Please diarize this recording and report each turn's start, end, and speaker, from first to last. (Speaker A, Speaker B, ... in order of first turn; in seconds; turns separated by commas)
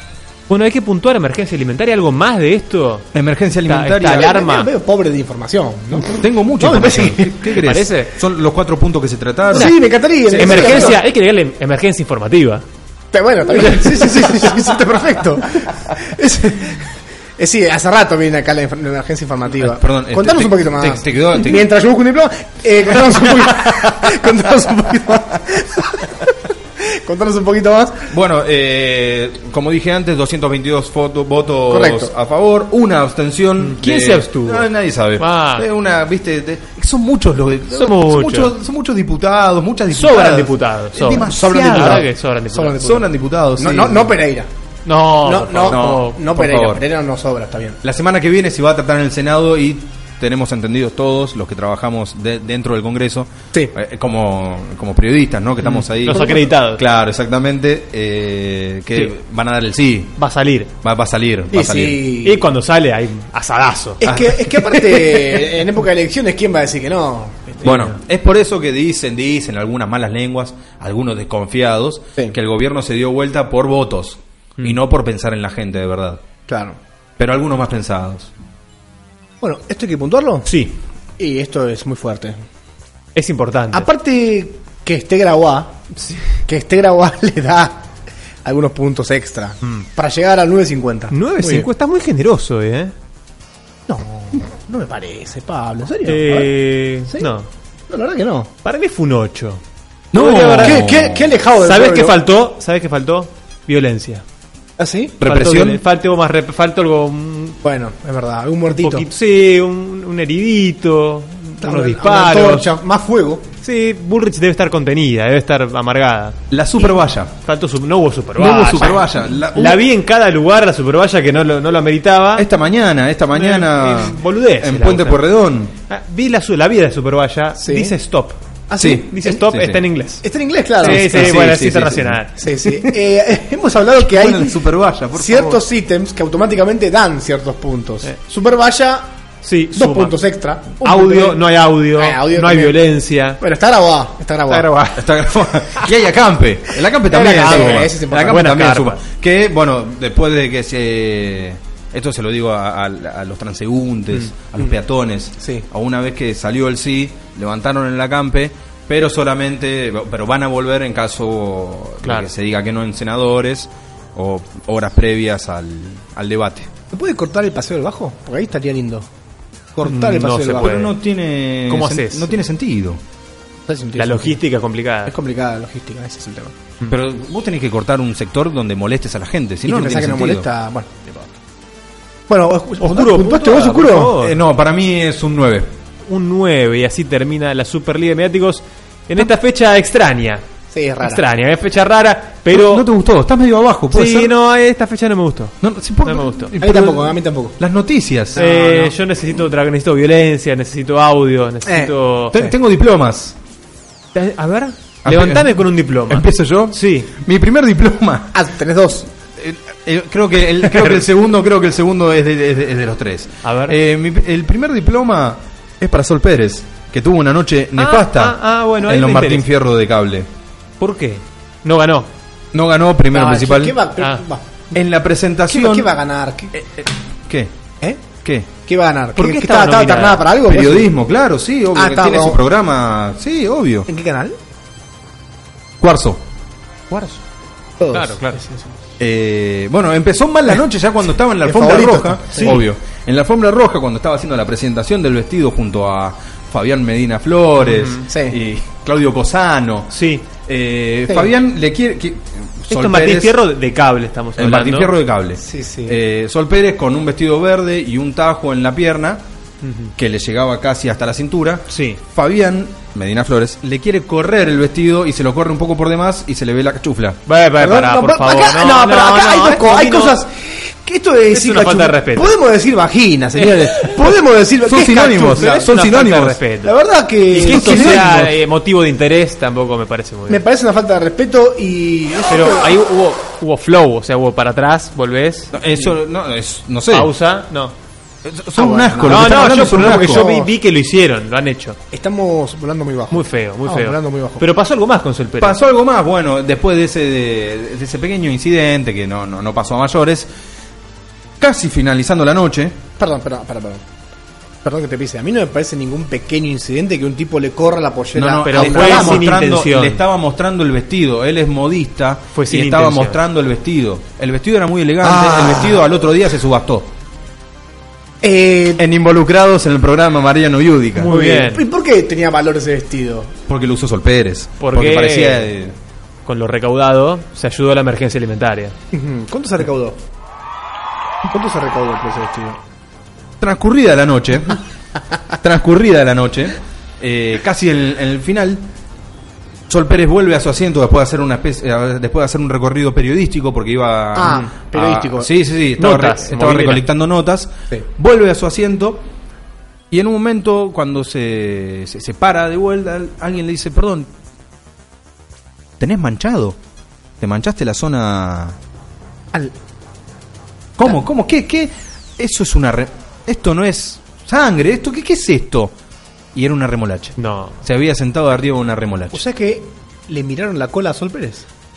Speaker A: 0.5-3.1, Speaker B: 3.1-4.3, Speaker A: 3.6-4.7, Speaker C: 4.0-7.5, Speaker B: 6.1-11.0, Speaker A: 7.5-8.1, Speaker C: 9.5-11.0, Speaker A: 9.5-9.8, Speaker A: 10.3-12.6, Speaker C: 13.1-28.1, Speaker A: 13.8-14.3, Speaker B: 19.5-21.6, Speaker B: 28.1-42.1, Speaker C: 31.7-32.1, Speaker A: 33.6-35.7, Speaker A: 37.7-38.5, Speaker A: 39.9-43.0, Speaker C: 41.1-43.0, Speaker B: 42.7-44.1, Speaker C: 43.6-44.5, Speaker A: 44.9-46.2, Speaker C: 45.2-47.8, Speaker B: 45.6-46.8, Speaker B: 47.8-60.2, Speaker A: 55.7-56.8, Speaker A: 60.2-60.7, Speaker B: 60.8-62.0, Speaker C: 61.5-62.5, Speaker A: 62.2-64.0, Speaker C: 64.0-67.7, Speaker B: 64.0-65.4, Speaker B: 67.6-76.2, Speaker A: 67.7-68.0, Speaker C: 76.5-76.8, Speaker B: 77.2-78.3, Speaker C: 79.4-80.5, Speaker A: 80.5-80.8, Speaker C: 81.2-82.4, Speaker A: 83.2-83.9, Speaker C: 83.7-85.8, Speaker C: 86.4-87.8, Speaker C: 88.4-91.7, Speaker A: 91.1-92.9, Speaker C: 93.9-96.5, Speaker A: 96.0-97.5, Speaker C: 97.9-98.5, Speaker A: 98.6-99.6, Speaker A: 100.1-100.9, Speaker B: 100.1-101.3, Speaker C: 100.5-102.2, Speaker A: 101.6-104.2, Speaker C: 104.8-105.2, Speaker B: 105.2-105.8, Speaker A: 105.2-107.6, Speaker C: 107.6-109.1, Speaker A: 108.7-112.7, Speaker C: 111.6-113.5, Speaker A: 113.6-116.9, Speaker B: 116.5-117.3, Speaker A: 117.4-122.5, Speaker B: 118.3-119.8, Speaker B: 122.3-125.7, Speaker A: 123.3-125.2, Speaker A: 125.9-130.2, Speaker C: 127.6-127.9, Speaker C: 128.7-129.4, Speaker B: 128.8-129.8, Speaker C: 130.2-131.4, Speaker A: 130.8-132.3, Speaker B: 130.8-132.9, Speaker C: 132.4-134.6, Speaker B: 134.0-135.6, Speaker C: 135.1-139.1, Speaker A: 139.4-140.2, Speaker C: 139.7-141.4, Speaker A: 140.8-143.4, Speaker C: 141.9-142.8, Speaker C: 143.4-144.7, Speaker A: 144.5-145.0, Speaker B: 144.9-166.7, Speaker C: 147.1-148.4, Speaker A: 147.1-149.0, Speaker A: 154.1-154.7, Speaker A: 162.0-162.3, Speaker C: 166.9-169.1, Speaker C: 169.8-170.8, Speaker A: 169.8-170.9, Speaker B: 170.6-173.0, Speaker A: 171.7-172.4, Speaker C: 173.7-174.4, Speaker A: 173.9-175.1, Speaker C: 175.1-176.6, Speaker B: 176.9-180.5, Speaker C: 179.7-181.3, Speaker C: 182.3-184.1, Speaker A: 182.8-184.4, Speaker B: 184.2-185.7, Speaker A: 186.1-190.4, Speaker C: 190.7-191.2, Speaker A: 191.0-192.9, Speaker B: 192.5-194.3, Speaker A: 193.9-196.5, Speaker B: 195.6-198.4, Speaker C: 196.6-197.6, Speaker C: 198.3-198.9, Speaker A: 198.4-202.4, Speaker C: 201.6-202.5, Speaker B: 202.3-203.3, Speaker A: 204.1-207.1, Speaker B: 205.0-208.3, Speaker C: 208.3-209.1, Speaker B: 209.3-220.3, Speaker A: 213.4-213.8, Speaker A: 217.8-219.4, Speaker A: 220.8-222.1, Speaker B: 222.5-223.8, Speaker C: 223.1-224.8, Speaker B: 224.7-225.9, Speaker C: 225.5-226.5, Speaker B: 226.5-227.5, Speaker C: 227.8-228.1, Speaker B: 228.2-228.5, Speaker C: 228.7-230.9, Speaker A: 229.2-230.3, Speaker B: 230.5-233.9, Speaker C: 231.7-232.4, Speaker C: 233.9-234.4, Speaker B: 235.8-236.2, Speaker C: 237.8-238.7, Speaker A: 237.9-238.4, Speaker B: 239.0-249.9, Speaker C: 241.4-242.6, Speaker A: 242.4-242.6, Speaker A: 247.7-248.1, Speaker C: 248.1-248.4, Speaker A: 249.9-250.2, Speaker B: 250.4-253.3, Speaker A: 252.7-254.9, Speaker B: 254.4-259.2, Speaker C: 255.4-256.0, Speaker A: 259.6-259.9, Speaker B: 260.0-267.2, Speaker A: 261.7-262.0, Speaker A: 267.3-270.2, Speaker C: 267.6-275.7, Speaker A: 271.3-272.3, Speaker B: 274.6-276.4, Speaker A: 275.2-276.7, Speaker C: 276.6-278.3, Speaker A: 277.3-280.4, Speaker B: 277.4-278.3, Speaker C: 280.3-282.7, Speaker A: 282.3-285.5, Speaker B: 285.5-287.1, Speaker A: 286.9-287.7, Speaker B: 288.2-290.2, Speaker C: 288.6-290.5, Speaker A: 289.0-291.8, Speaker C: 291.9-294.4, Speaker A: 293.1-295.6, Speaker B: 295.4-300.3, Speaker B: 301.4-302.8, Speaker C: 303.0-303.8, Speaker C: 304.6-309.3, Speaker B: 308.1-316.9, Speaker A: 308.4-310.0, Speaker A: 312.3-313.2, Speaker C: 315.0-315.8, Speaker C: 318.2-318.8, Speaker B: 318.8-321.1, Speaker A: 321.0-321.6, Speaker C: 321.0-323.3, Speaker B: 323.5-325.7, Speaker A: 324.6-325.5, Speaker A: 326.2-328.7, Speaker C: 328.9-330.0, Speaker C: 331.2-332.6, Speaker B: 333.4-334.6, Speaker B: 335.4-338.6, Speaker B: 339.7-349.0, Speaker C: 344.1-345.3, Speaker A: 345.8-346.8, Speaker B: 349.9-354.1, Speaker B: 355.8-356.6, Speaker B: 357.2-358.6, Speaker B: 360.8-365.7, Speaker B: 366.3-369.2, Speaker A: 367.2-367.6, Speaker C: 369.1-371.4